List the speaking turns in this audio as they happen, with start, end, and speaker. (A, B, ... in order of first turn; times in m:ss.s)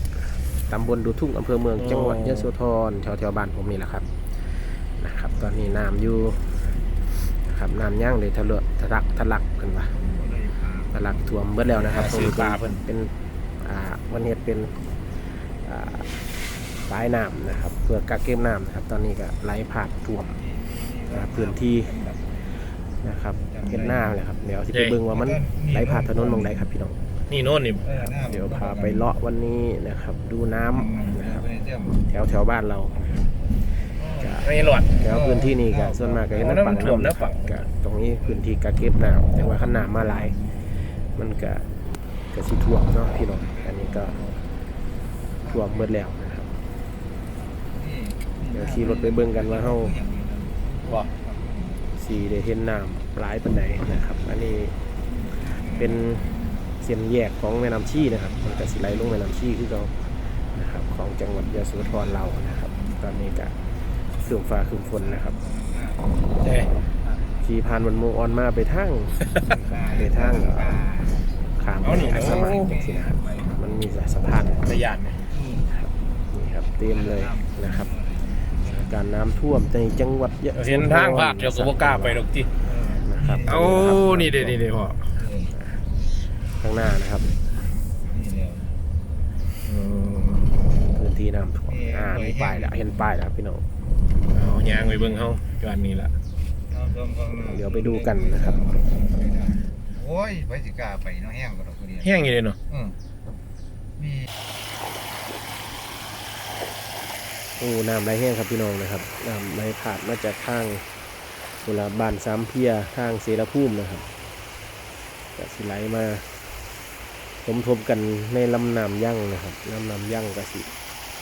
0:00.7-0:10.0 A
0:01.8-0:02.5 B
0:09.8-0:12.1 C
0:10.9-0:16.2 A
0:11.7-0:12.8 B
0:16.8-0:20.4 A
0:20.3-0:22.7 C
0:21.1-0:22.0 A
0:23.0-0:27.2 A
0:23.4-0:24.2 C
0:24.7-0:25.0 B
0:25.1-0:26.7 C
0:27.3-0:27.8 B
0:27.8-0:29.1 C
0:28.0-0:31.4 A
0:30.7-0:32.0 C
0:32.1-0:33.3 A
0:33.9-0:37.7 C
0:34.2-0:40.4 A
0:34.4-0:34.9 B
0:36.4-0:37.4 B
0:38.2-0:38.5 C
0:39.4-0:40.5 C
0:41.0-0:44.2 A
0:43.1-0:44.4 C
0:45.4-0:46.0 C
0:45.5-0:46.5 A
0:47.7-0:52.0 C
0:48.5-0:50.0 A
0:52.0-0:54.8 A
0:55.0-0:56.7 C
0:55.5-0:56.2 A
0:56.8-1:03.6 A
0:57.9-0:59.3 C
1:01.6-1:03.2 C
1:04.2-1:05.4 A
1:04.5-1:08.0 C
1:06.4-1:06.7 B
1:07.4-1:09.2 A
1:09.2-1:09.4 B
1:09.4-1:13.8 C
1:09.9-1:10.9 A
1:11.6-1:14.7 A
1:11.8-1:12.7 B
1:14.6-1:15.2 B
1:15.1-1:15.7 C
1:15.6-1:17.9 A
1:16.8-1:19.0 C
1:18.6-1:22.3 A
1:20.6-1:22.5 B
1:22.6-1:24.2 C
1:23.0-1:24.7 A
1:23.5-1:25.1 B
1:25.1-1:25.6 C
1:26.5-1:27.3 A
1:27.9-1:28.8 C
1:29.7-1:30.5 B
1:30.9-1:33.6 A
1:31.7-1:33.2 C
1:34.3-1:36.1 B
1:34.6-1:35.4 C
1:36.7-1:43.0 C
1:37.5-1:38.6 A
1:42.0-1:42.6 B
1:44.0-1:44.3 C
1:47.6-1:54.1 A
1:55.4-1:56.4 A
1:57.4-2:00.7 A